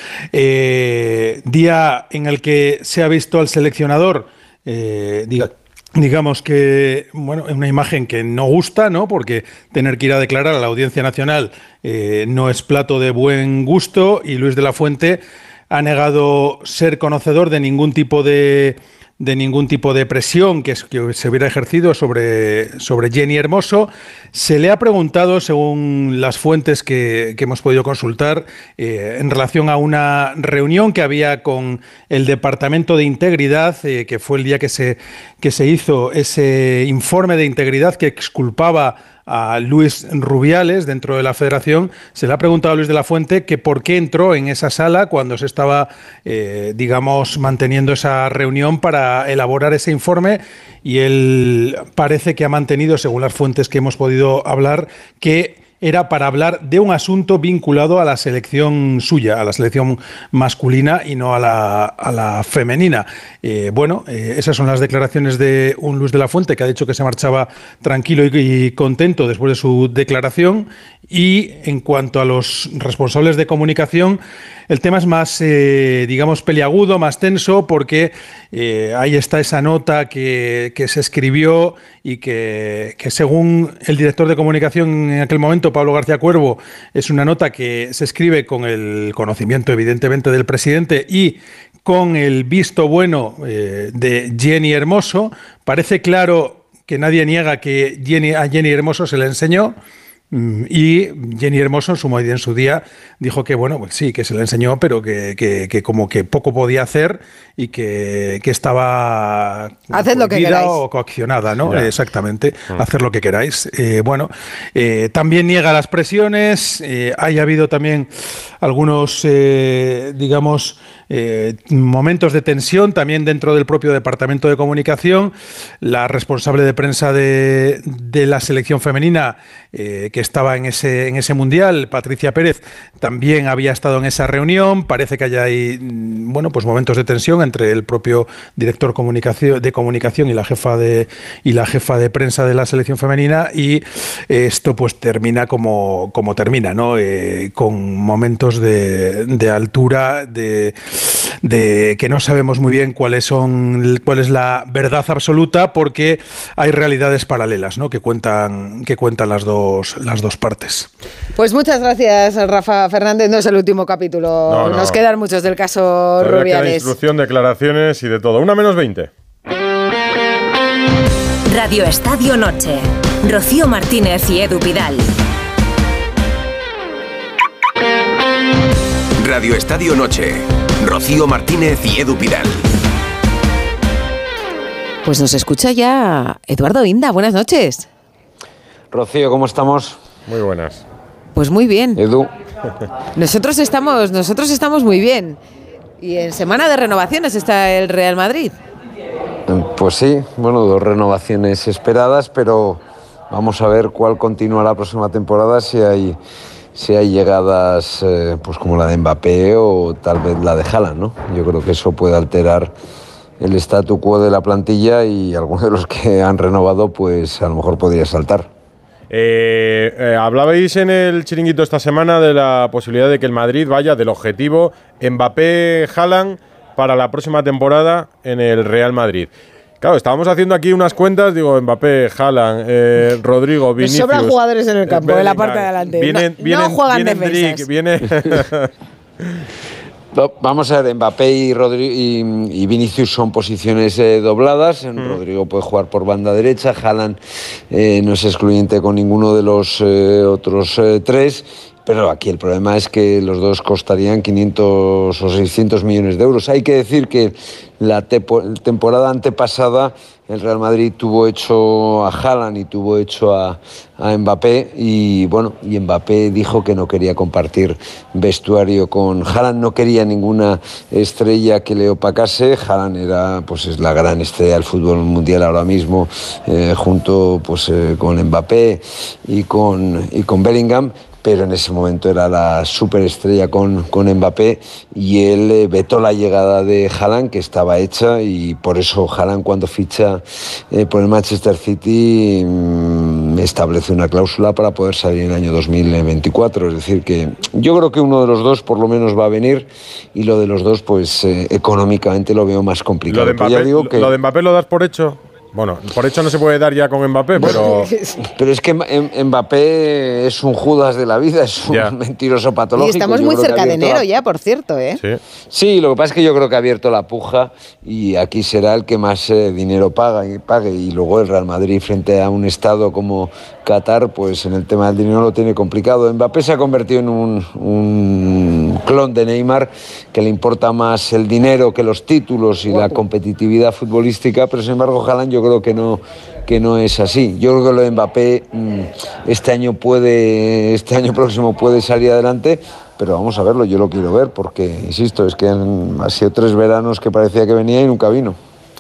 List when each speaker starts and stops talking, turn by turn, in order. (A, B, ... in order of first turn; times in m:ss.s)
0:00.3-1:39.8 A
1:40.3-1:58.1 A
1:49.9-1:50.8 B
1:58.6-2:40.9 A
2:41.3-2:46.9 B
2:44.5-2:45.0 C
2:46.2-2:49.1 C
2:51.4-2:55.1 D
2:59.2-3:02.6 E
3:05.0-3:07.9 B
3:08.9-3:10.0 F
3:10.3-3:10.8 C
3:11.3-3:12.0 B
3:12.0-3:12.3 F
3:13.1-3:15.4 B
3:16.0-3:18.6 B
3:19.5-3:26.2 F
3:26.7-3:32.7 F
3:33.4-3:38.5 F
3:39.1-3:54.3 C
3:53.8-3:57.7 B
3:54.8-3:58.7 C
4:00.1-4:07.2 F
4:07.7-5:04.1 F
5:03.1-5:07.9 C
5:07.4-5:07.7 F
5:07.4-5:08.2 B
5:08.4-5:14.0 F
5:11.7-5:11.9 C
5:12.7-5:15.0 B
5:15.5-5:48.4 F